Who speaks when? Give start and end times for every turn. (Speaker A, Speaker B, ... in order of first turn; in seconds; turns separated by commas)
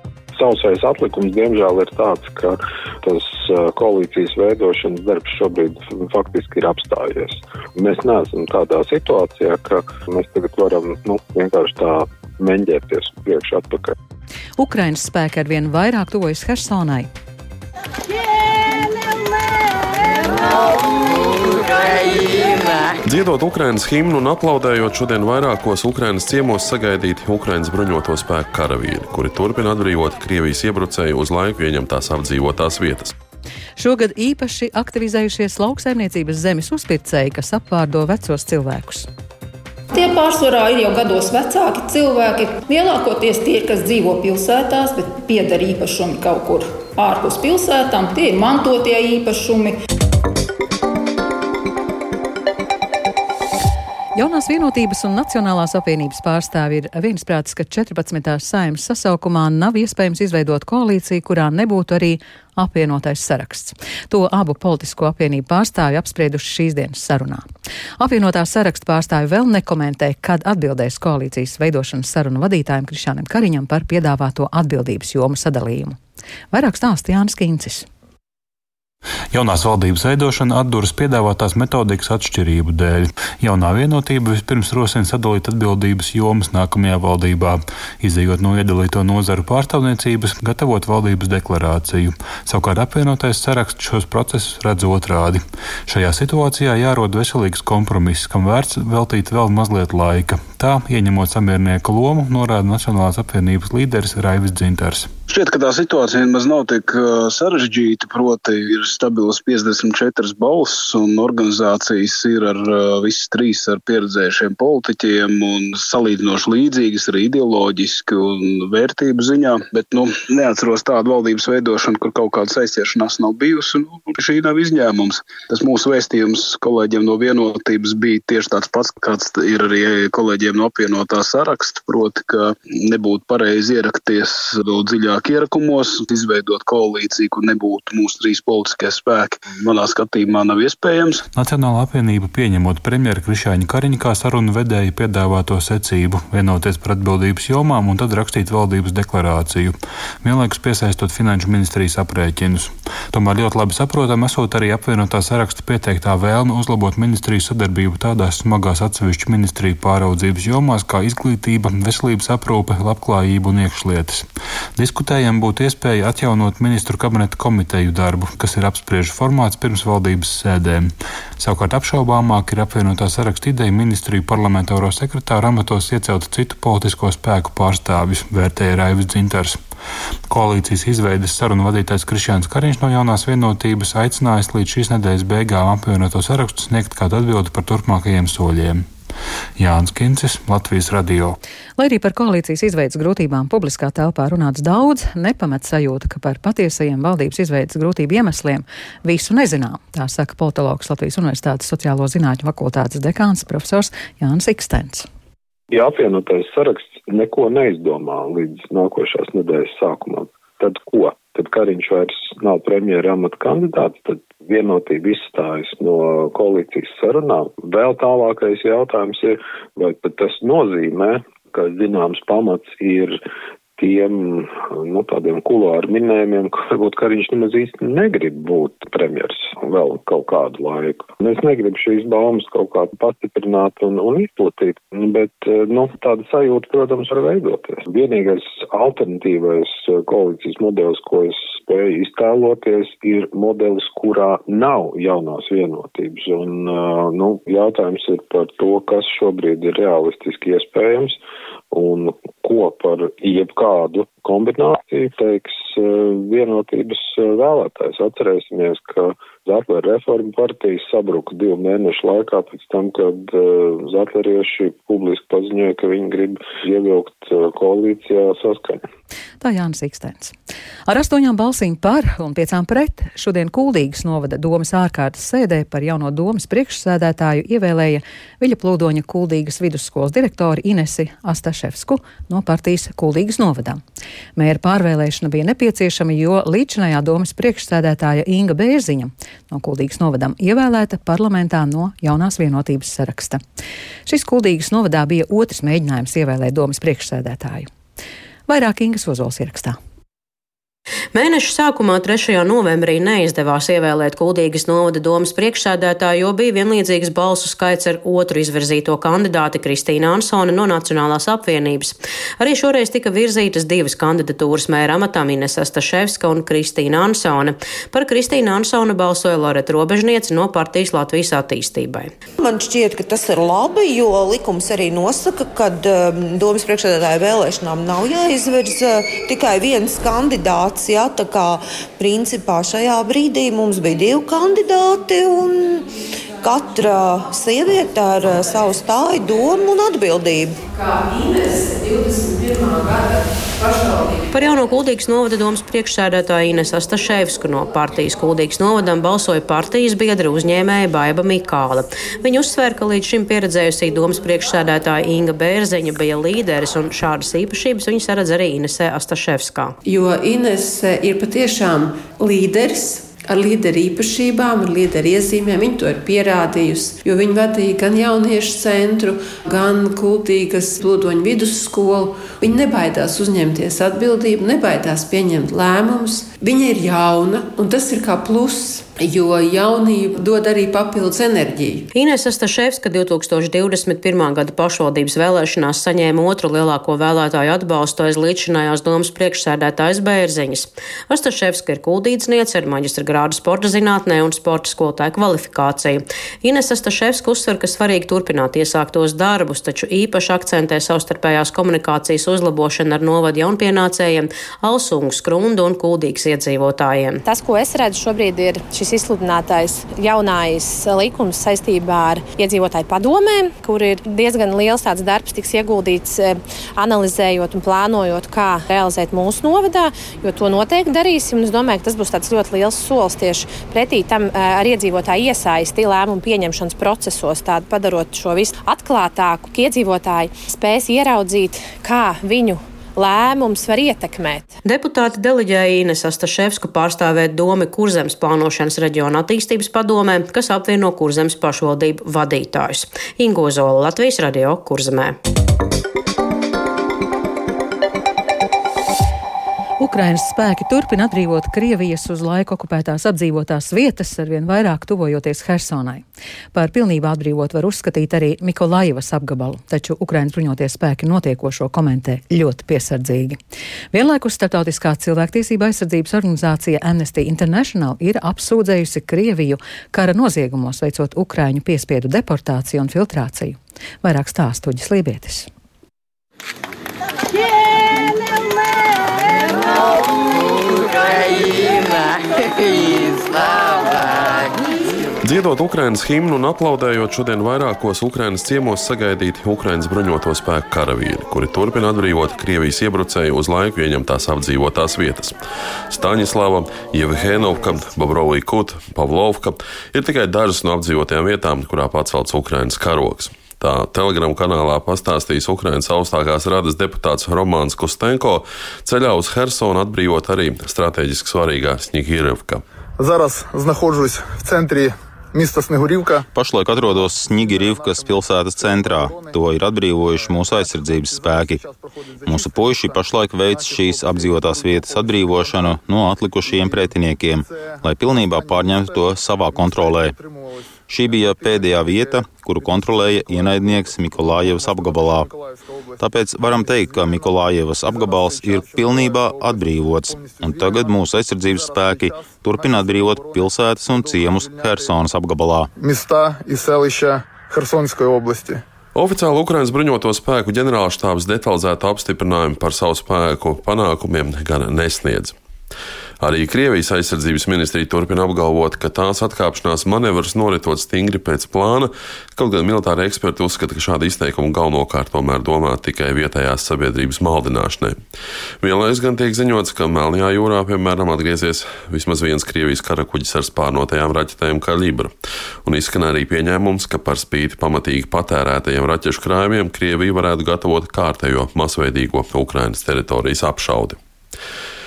Speaker A: 0.3-13.9, Speaker B: 14.6-17.1, Speaker C: 23.0-33.1, Speaker B: 33.8-39.1, Speaker D: 39.9-49.8, Speaker B: 54.1-67.5, Speaker B: 68.0-76.0, Speaker B: 76.5-77.9, Speaker E: 79.3-105.1, Speaker F: 105.3-141.2, Speaker E: 141.3-179.6, Speaker E: 180.3-188.9, Speaker E: 189.6-191.4, Speaker B: 191.8-205.1, Speaker A: 205.7-223.2, Speaker A: 223.8-251.2, Speaker A: 251.7-268.8, Speaker B: 269.4-270.3, Speaker B: 270.9-283.8, Speaker B: 284.4-293.4, Speaker B: 294.1-297.7, Speaker B: 298.5-299.8, Speaker G: 301.1-322.1, Speaker H: 322.4-335.9, Speaker H: 336.4-340.6, Speaker I: 340.7-344.4, Speaker G: 344.3-359.8, Speaker J: 359.8-381.9, Speaker G: 381.9-407.2, Speaker I: 407.2-434.6, Speaker G: 434.6-445.2, Speaker B: 449.8-456.0, Speaker B: 456.5-463.4, Speaker B: 463.9-475.5, Speaker C: 485.2-495.4, Speaker C: 495.9-512.6, Speaker K: 513.0-516.3, Speaker L: 516.3-521.6, Speaker K: 516.9-519.4, Speaker K: 520.2-525.8, Speaker L: 522.2-530.1, Speaker K: 526.5-545.0, Speaker L: 530.9-535.3, Speaker L: 536.0-545.7, Speaker K: 545.8-548.6, Speaker C: 549.0-555.4, Speaker C: 556.2-568.0, Speaker C: 568.6-575.1, Speaker C: 575.6-584.0